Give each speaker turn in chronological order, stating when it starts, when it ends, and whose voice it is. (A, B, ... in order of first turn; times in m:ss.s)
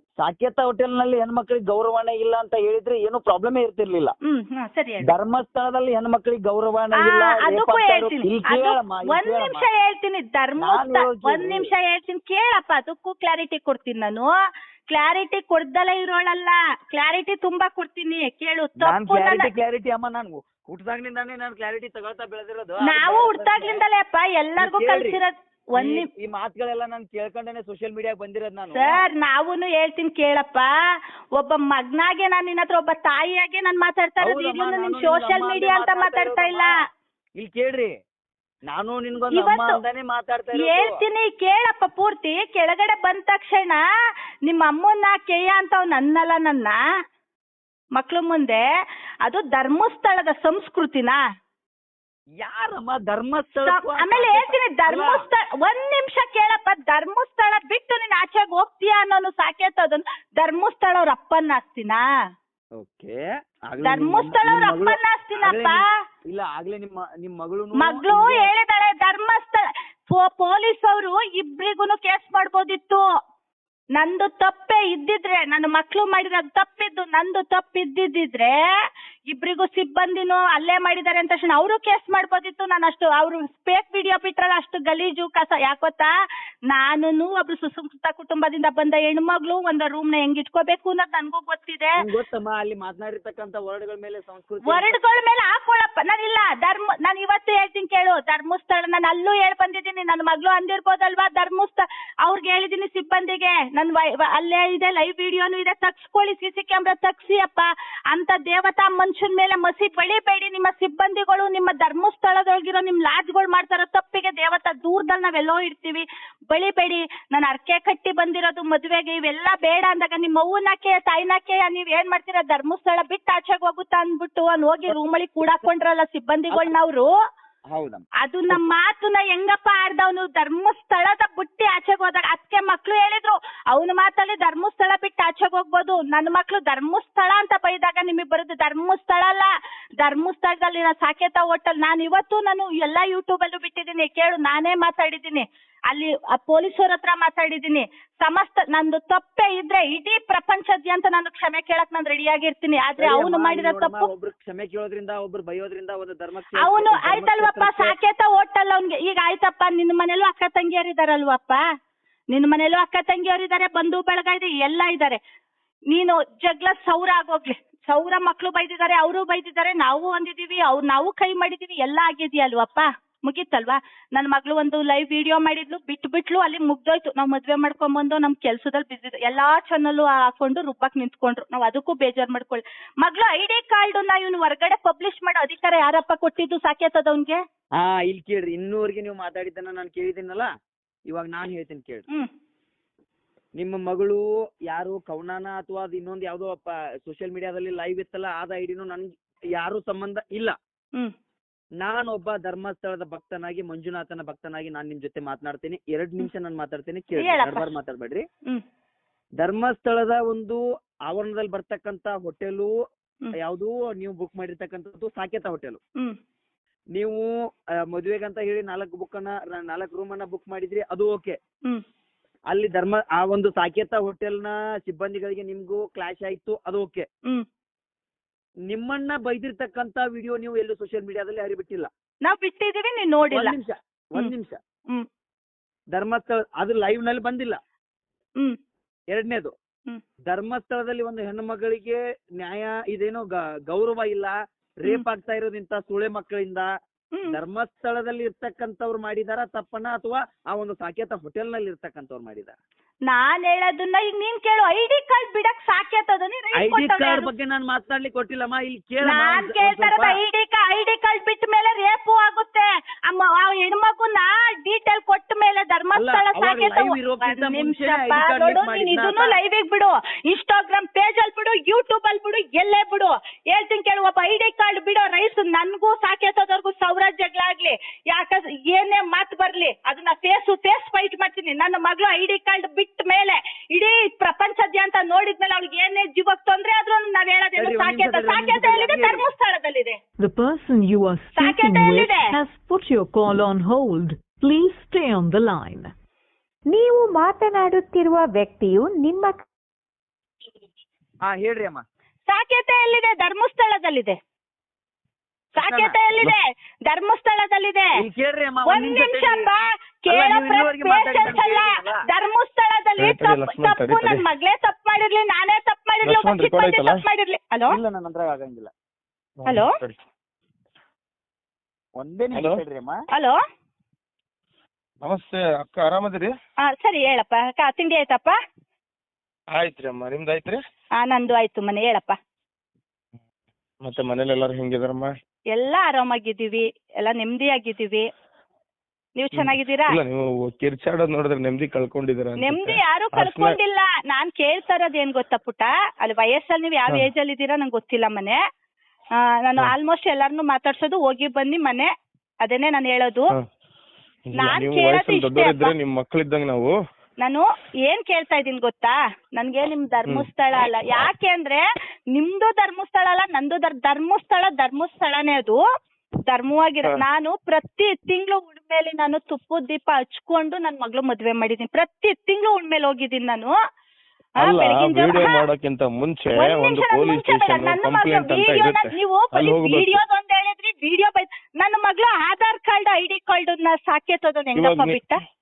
0:00.2-0:04.1 A
0:04.3-0:05.1 B
0:05.1-0:09.6 A
0:07.0-0:14.3 B
0:10.6-0:11.7 A
0:14.9-0:19.5 B
0:18.8-0:23.8 A
0:22.8-0:26.1 B
0:24.6-0:25.2 A
0:25.8-0:29.0 A
0:28.7-0:30.7 B
0:31.4-0:36.7 B
0:34.2-0:36.7 A
0:37.4-0:37.9 A
0:38.7-0:41.0 A
0:39.3-0:39.8 B
0:40.6-0:43.8 B
0:44.5-0:46.8 B
0:48.0-0:48.6 B
0:49.2-0:51.2 B
0:52.4-0:55.2 A
0:53.7-1:02.0 B
1:02.8-1:08.5 A
1:03.8-1:05.8 B
1:07.8-1:13.0 B
1:14.0-1:18.6 B
1:19.3-1:26.1 B
1:26.7-1:31.9 B
1:32.0-1:34.9 A
1:34.7-2:07.1 B
2:07.7-2:08.6 A
2:08.2-2:19.5 B
2:20.0-2:34.1 B
2:33.0-2:38.0 A
2:36.6-2:41.6 B
2:42.3-2:45.2 B
2:45.9-3:07.4 B
3:07.8-3:10.5 A
3:11.1-3:12.1 A
3:13.6-3:20.6 A
3:21.8-3:28.2 A
3:27.2-3:27.7 B
3:29.4-3:32.7 A
3:33.4-3:35.8 A
3:37.0-3:37.3 A
3:37.9-3:41.4 A
3:42.5-3:47.0 A
3:48.7-3:51.9 A
3:52.2-3:53.5 B
3:53.3-3:54.6 A
3:56.0-3:57.6 A
3:59.1-3:59.5 A
4:00.3-4:06.7 A
4:07.3-4:12.6 A
4:13.1-4:17.3 B
4:16.6-4:20.2 A
4:19.0-4:50.0 B
4:26.0-4:29.4 A
4:47.6-4:49.2 A
4:50.2-4:55.9 C
4:51.4-4:52.3 B
4:56.7-4:59.5 D
5:01.2-5:01.8 A
5:02.3-5:04.2 B
5:05.6-5:06.0 A
5:05.6-5:07.9 B
5:08.0-5:09.4 A
5:08.7-5:17.7 B
5:10.1-5:12.0 A
5:13.0-5:14.2 E
5:16.0-5:17.0 E
5:17.7-5:18.7 A
5:19.4-5:20.0 E
5:22.0-5:23.0 A
5:22.4-5:22.6 E
5:25.0-5:26.3 E
5:26.6-5:28.4 B
5:29.6-5:30.6 E
5:31.0-5:32.2 B
5:33.8-5:35.1 E
5:35.5-5:38.1 B
5:39.2-5:40.0 B
5:39.4-5:43.6 E
5:42.4-5:48.4 B
5:49.4-5:51.9 B
5:52.4-5:53.3 B
5:54.3-5:56.7 E
5:54.4-5:55.7 B
5:57.2-6:01.6 B
6:02.2-6:05.6 B
6:06.2-6:13.5 B
6:14.4-6:20.0 E
6:14.4-6:15.4 B
6:16.4-6:25.2 B
6:24.6-6:25.0 E